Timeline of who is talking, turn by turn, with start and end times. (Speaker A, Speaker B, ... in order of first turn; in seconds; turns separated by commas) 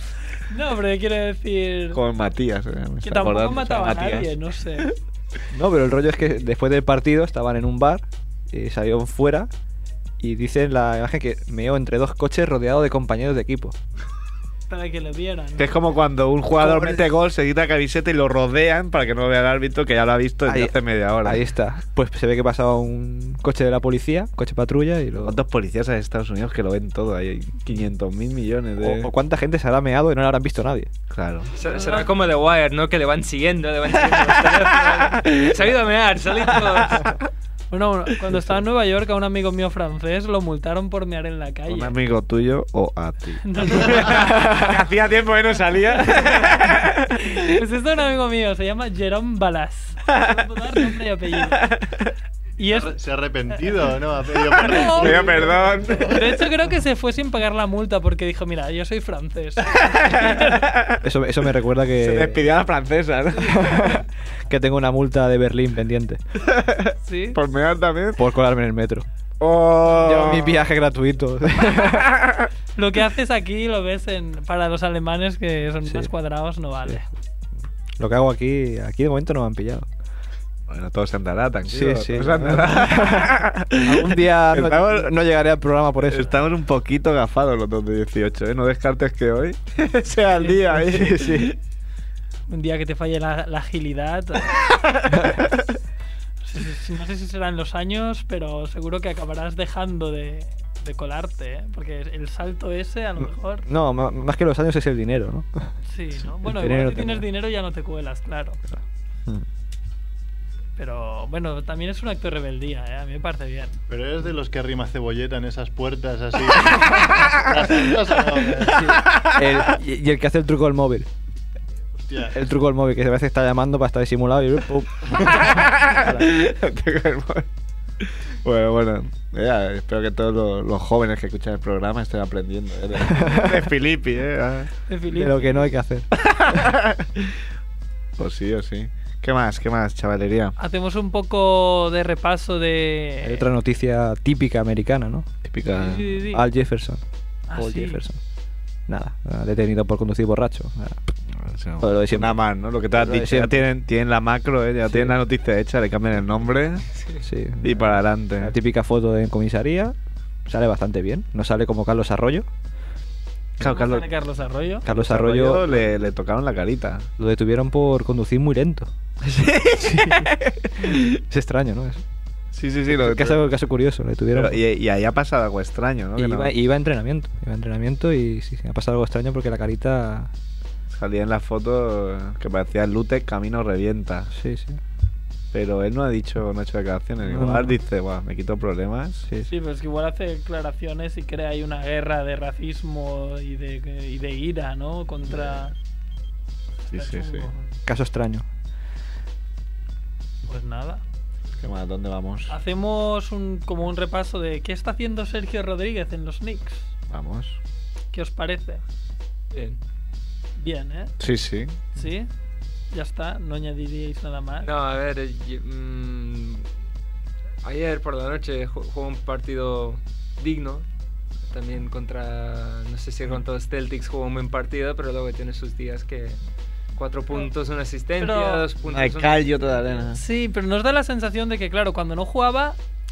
Speaker A: 0.5-2.0, Speaker B: 1.9-4.3, Speaker A: 3.0-4.9, Speaker C: 5.5-9.5, Speaker C: 10.2-13.7, Speaker A: 14.7-15.7, Speaker B: 15.6-21.4, Speaker A: 16.7-17.0, Speaker C: 20.4-25.4, Speaker B: 25.1-29.1, Speaker C: 28.8-30.9, Speaker B: 31.1-31.5, Speaker D: 31.6-37.1, Speaker A: 31.6-32.1, Speaker B: 34.1-35.6, Speaker A: 37.7-41.9, Speaker B: 41.7-47.6, Speaker A: 43.4-44.3, Speaker A: 46.0-46.7, Speaker A: 47.4-51.7, Speaker B: 50.1-50.4, Speaker B: 51.4-52.1, Speaker A: 52.6-53.0, Speaker E: 52.7-56.3, Speaker A: 54.5-55.5, Speaker B: 54.9-56.2, Speaker A: 56.1-60.7, Speaker B: 59.7-60.9, Speaker C: 61.0-62.5, Speaker B: 62.0-64.0, Speaker C: 63.4-66.2, Speaker B: 66.5-68.2, Speaker A: 67.0-67.4, Speaker C: 68.2-69.0, Speaker B: 69.4-70.7, Speaker C: 69.9-72.1, Speaker B: 72.0-72.5, Speaker A: 72.8-77.0, Speaker C: 75.8-76.1, Speaker C: 78.0-79.9, Speaker B: 80.7-85.1, Speaker C: 81.7-86.3, Speaker B: 86.1-91.5, Speaker C: 90.8-91.5, Speaker A: 92.5-94.7, Speaker C: 95.1-95.4, Speaker A: 96.4-103.7, Speaker C: 103.2-105.7, Speaker A: 105.9-108.6, Speaker C: 106.4-107.2, Speaker A: 110.8-113.8, Speaker E: 113.9-119.0, Speaker C: 118.8-121.1, Speaker B: 118.8-119.4, Speaker E: 122.0-122.4, Speaker C: 122.3-126.4, Speaker B: 125.2-127.5, Speaker B: 128.4-134.7, Speaker C: 133.1-133.5, Speaker A: 134.9-135.7, Speaker C: 135.1-136.1, Speaker B: 136.2-137.3, Speaker B: 138.2-140.5, Speaker A: 140.6-143.4, Speaker C: 143.2-145.3, Speaker B: 145.4-146.1, Speaker A: 145.7-146.4, Speaker C: 146.3-147.0, Speaker A: 147.5-148.0, Speaker C: 147.5-148.2, Speaker C: 148.9-151.0, Speaker B: 151.4-156.8, Speaker C: 151.8-152.3, Speaker C: 152.9-153.6, Speaker C: 157.2-162.5, Speaker B: 157.6-158.5, Speaker B: 163.6-164.1, Speaker A: 163.6-164.8, Speaker C: 164.8-165.8, Speaker B: 164.8-167.1, Speaker C: 167.2-168.9, Speaker B: 169.2-170.9, Speaker C: 169.8-170.3, Speaker C: 170.8-172.0, Speaker B: 172.5-173.4, Speaker C: 172.9-174.6, Speaker B: 174.3-176.5, Speaker C: 176.2-180.3, Speaker B: 180.9-184.3, Speaker C: 184.3-184.8, Speaker B: 185.5-189.2, Speaker C: 187.2-187.7, Speaker A: 189.5-195.7, Speaker B: 196.9-197.5, Speaker A: 196.9-197.6, Speaker C: 197.8-198.4, Speaker A: 200.4-201.0, Speaker B: 201.6-202.5, Speaker A: 202.5-206.9, Speaker B: 207.1-207.6, Speaker A: 208.1-208.8, Speaker D: 209.5-209.8, Speaker A: 210.6-211.1, Speaker B: 211.2-211.7, Speaker A: 211.9-212.3, Speaker A: 212.9-214.7, Speaker D: 214.6-216.7, Speaker D: 217.6-220.8, Speaker D: 221.5-226.4, Speaker D: 226.9-230.0, Speaker A: 228.2-228.7, Speaker B: 228.9-230.2, Speaker A: 230.1-232.8